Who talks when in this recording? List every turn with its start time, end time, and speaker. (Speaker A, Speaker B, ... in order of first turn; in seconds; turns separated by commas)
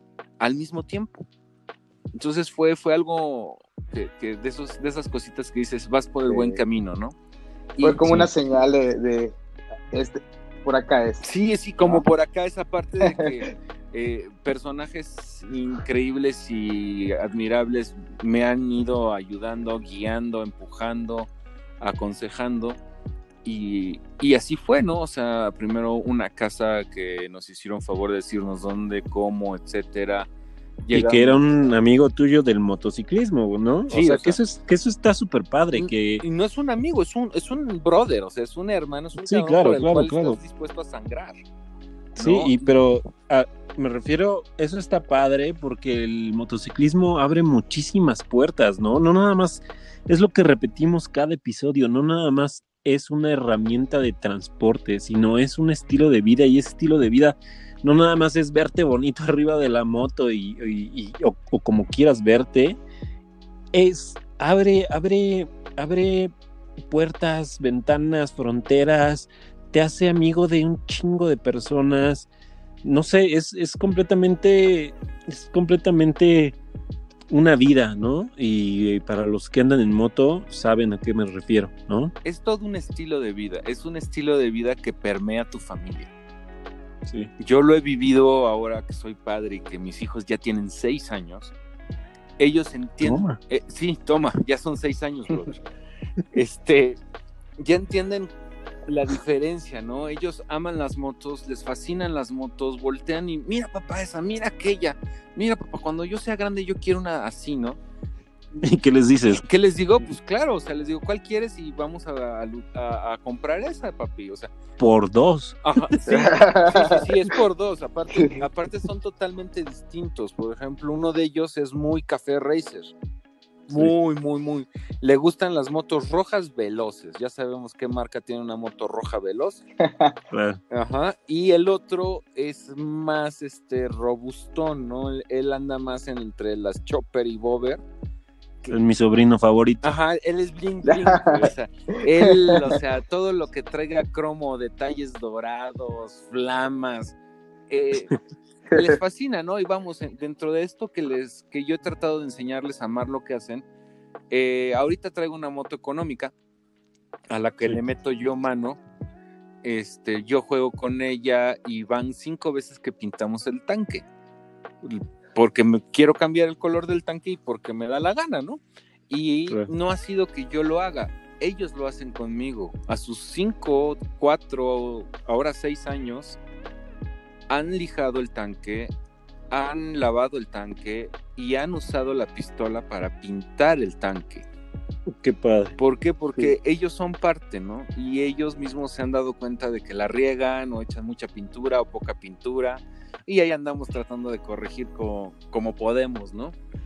Speaker A: 0.4-1.2, Speaker A: 2.1-7.1, Speaker B: 6.3-6.6, Speaker B: 7.8-9.4, Speaker C: 8.0-8.3, Speaker B: 9.9-11.2, Speaker A: 11.2-21.3, Speaker B: 13.0-13.5, Speaker A: 21.8-22.8, Speaker A: 23.4-30.3, Speaker A: 30.8-31.5, Speaker C: 30.9-36.2, Speaker A: 33.9-34.4, Speaker A: 35.7-41.4, Speaker C: 39.1-40.4, Speaker C: 42.1-62.8, Speaker A: 42.2-42.6, Speaker C: 63.7-66.3, Speaker C: 66.8-72.3, Speaker C: 72.8-76.6, Speaker C: 77.3-82.1, Speaker A: 82.2-86.1, Speaker C: 87.0-87.3, Speaker A: 87.4-91.5, Speaker A: 92.4-95.6, Speaker C: 93.0-93.4, Speaker A: 96.3-97.0, Speaker A: 97.6-98.3, Speaker A: 98.8-107.8, Speaker C: 108.6-109.5, Speaker A: 109.4-114.5, Speaker C: 114.8-116.0, Speaker A: 115.6-122.9, Speaker B: 116.1-117.0, Speaker A: 123.7-129.6, Speaker B: 129.8-130.2, Speaker C: 130.3-130.6, Speaker A: 130.7-137.8, Speaker C: 138.7-139.8, Speaker A: 139.8-147.2, Speaker B: 140.9-141.5, Speaker B: 142.2-142.6, Speaker A: 147.7-148.1, Speaker A: 148.7-153.6, Speaker A: 154.3-156.3, Speaker A: 157.3-158.8, Speaker A: 159.6-164.1, Speaker A: 164.8-176.4, Speaker A: 177.5-178.9, Speaker A: 179.5-184.5, Speaker C: 185.1-185.8, Speaker A: 185.8-196.6